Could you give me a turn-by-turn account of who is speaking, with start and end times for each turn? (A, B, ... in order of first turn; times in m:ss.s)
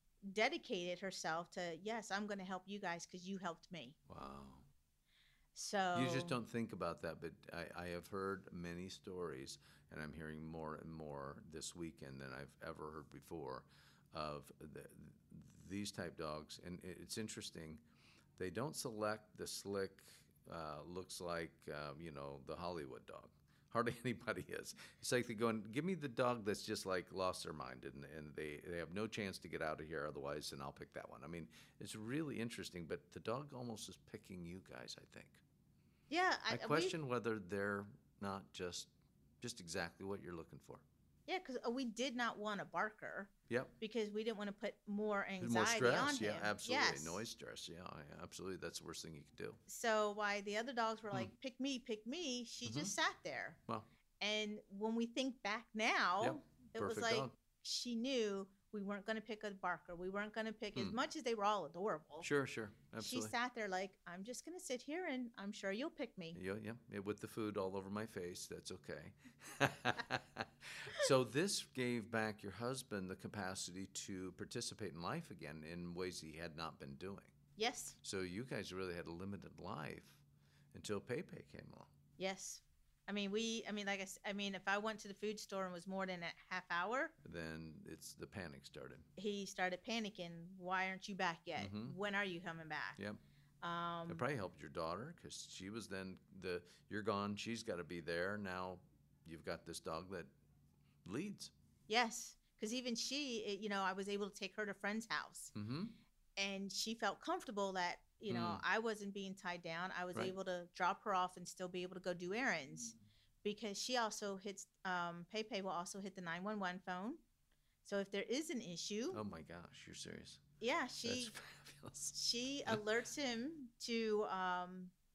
0:00.2-0:04.0 A
0:04.1-0:04.6 B
0:05.5-0:06.4 A
0:05.9-0:17.8 B
0:18.4-0:35.4 B
0:36.1-0:36.9 A
0:36.5-0:40.8 B
0:41.3-0:47.2 A
0:45.4-0:49.6 B
0:49.7-0:53.6 A
0:52.6-0:52.9 B
0:54.2-1:02.3 A
0:56.2-0:57.3 B
1:02.2-1:03.3 B
1:03.0-1:06.4 A
1:06.3-1:17.3 B
1:17.6-1:17.9 A
1:18.0-1:20.2 B
1:20.7-1:21.9 B
1:22.2-1:27.1 A
1:27.2-1:29.1 B
1:29.2-1:33.0 A
1:31.6-1:32.0 B
1:33.6-1:34.2 A
1:34.1-1:40.3 B
1:41.0-1:41.5 B
1:41.9-1:45.5 A
1:45.5-1:46.0 B
1:46.4-1:57.2 A
1:48.3-1:48.6 B
1:57.8-1:59.2 A
1:59.1-2:00.4 B
2:00.6-2:01.3 A
2:01.0-2:02.8 B
2:02.1-2:04.9 A